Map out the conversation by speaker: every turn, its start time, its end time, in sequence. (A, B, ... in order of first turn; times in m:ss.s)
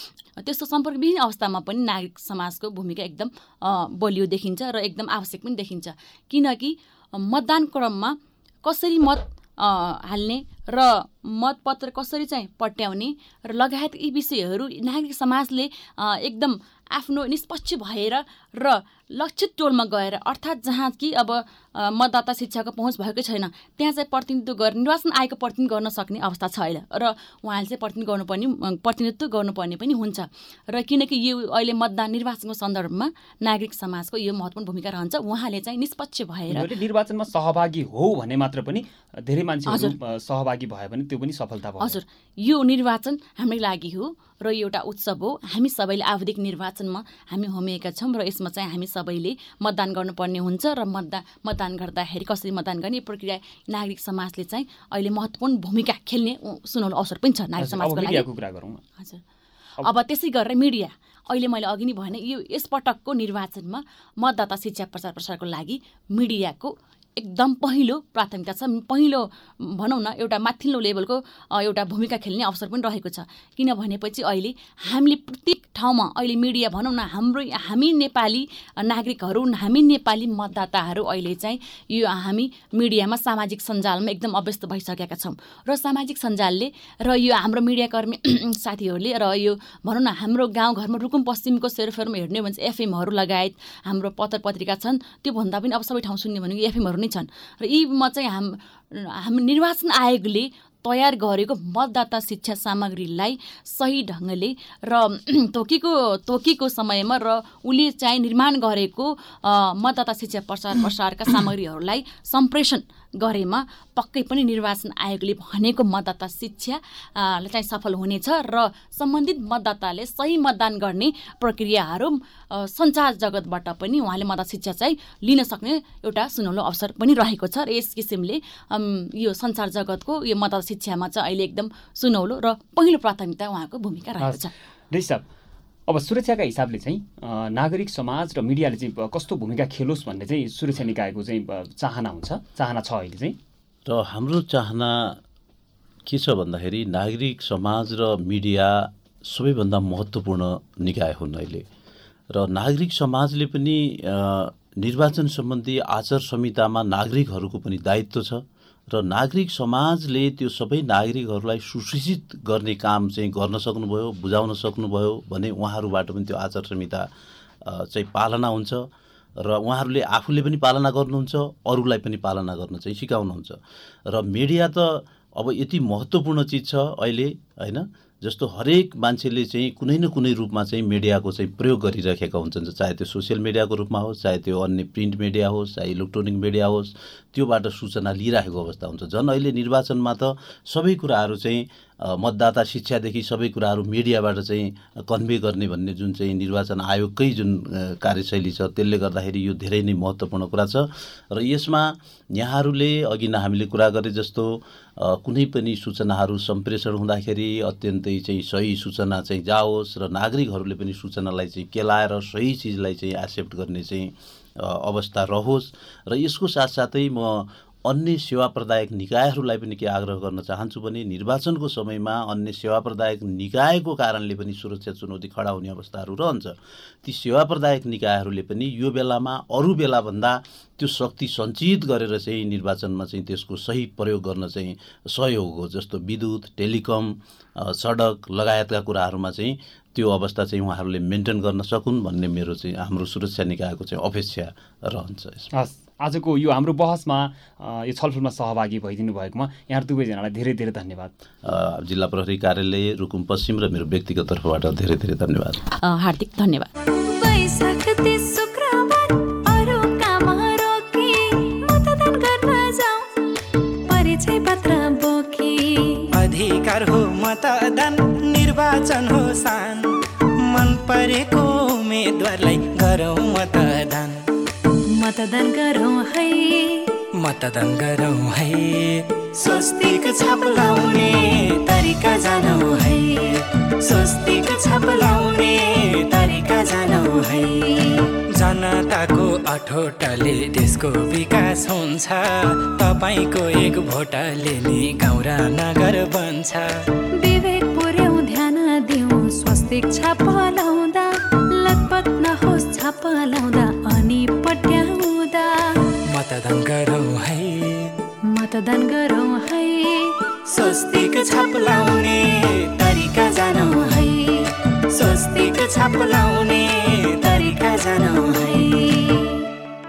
0:00.4-0:36.7 A
0:36.5-0:42.0 B
0:39.7-0:39.9 A
0:41.8-0:58.2 A
0:57.6-0:58.8 B
0:59.8-2:14.5 A
2:14.2-2:15.2 B
2:15.9-2:23.4 B
2:23.8-2:25.2 C
2:26.0-2:31.6 C
2:32.3-2:47.0 C
2:47.6-2:48.8 C
2:49.4-4:05.5 C
4:05.5-4:11.1 B
4:11.4-4:15.6 C
4:15.8-4:16.7 A
4:17.0-4:23.1 D
4:23.9-4:26.1 D
4:26.1-4:29.9 E
4:30.4-4:34.2 E
4:35.0-4:36.9 D
4:37.2-4:42.5 E
4:42.4-4:43.1 D
4:43.8-4:47.4 E
4:47.1-4:47.7 D
4:48.4-4:56.7 E
4:57.2-5:05.8 D
5:06.1-5:07.9 E
5:08.3-5:10.2 D
5:10.5-5:13.8 E
5:13.7-5:14.4 D
5:14.9-5:18.3 E
5:18.1-5:19.1 D